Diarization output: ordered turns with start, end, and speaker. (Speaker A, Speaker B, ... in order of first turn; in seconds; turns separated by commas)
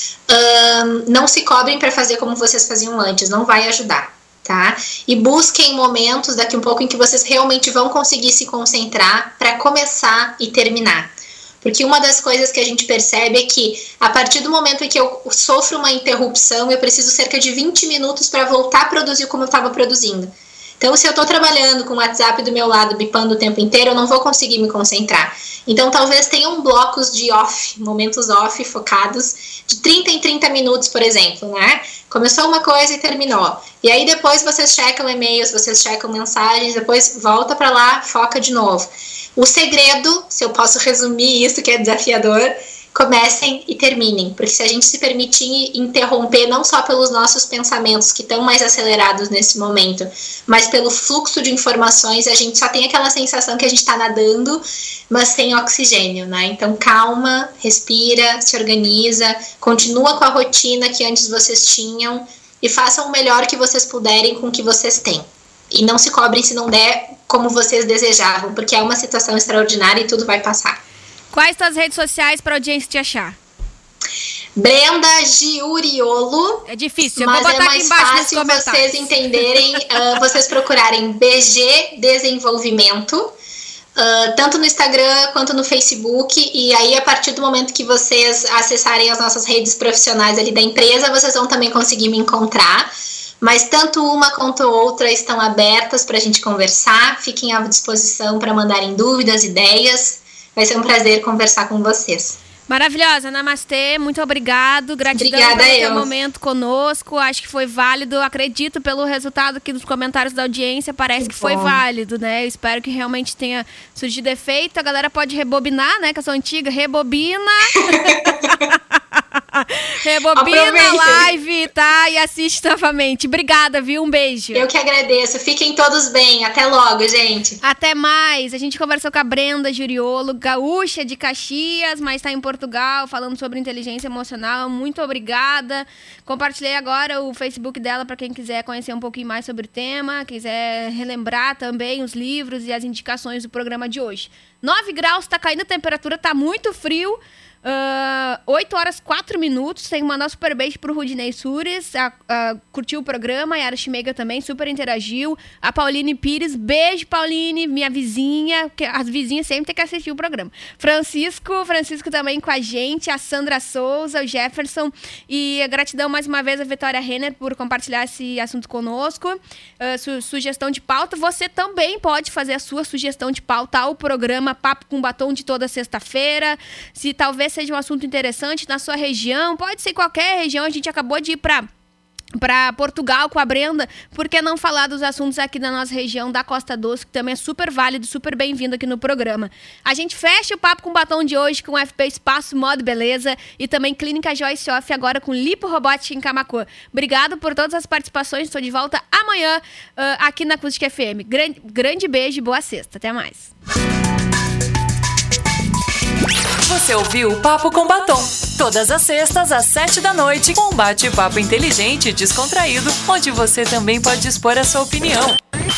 Speaker A: 0.3-70.8, Speaker B: 71.3-73.4, Speaker A: 74.5-83.3, Speaker B: 76.7-79.8, Speaker A: 84.0-92.9, Speaker A: 93.4-102.4, Speaker B: 102.7-124.7, Speaker A: 105.1-106.1, Speaker A: 111.2-111.8, Speaker A: 117.9-118.3, Speaker A: 120.3-121.3, Speaker A: 124.5-127.6, Speaker B: 127.6-181.7, Speaker B: 182.4-203.5, Speaker C: 206.6-215.4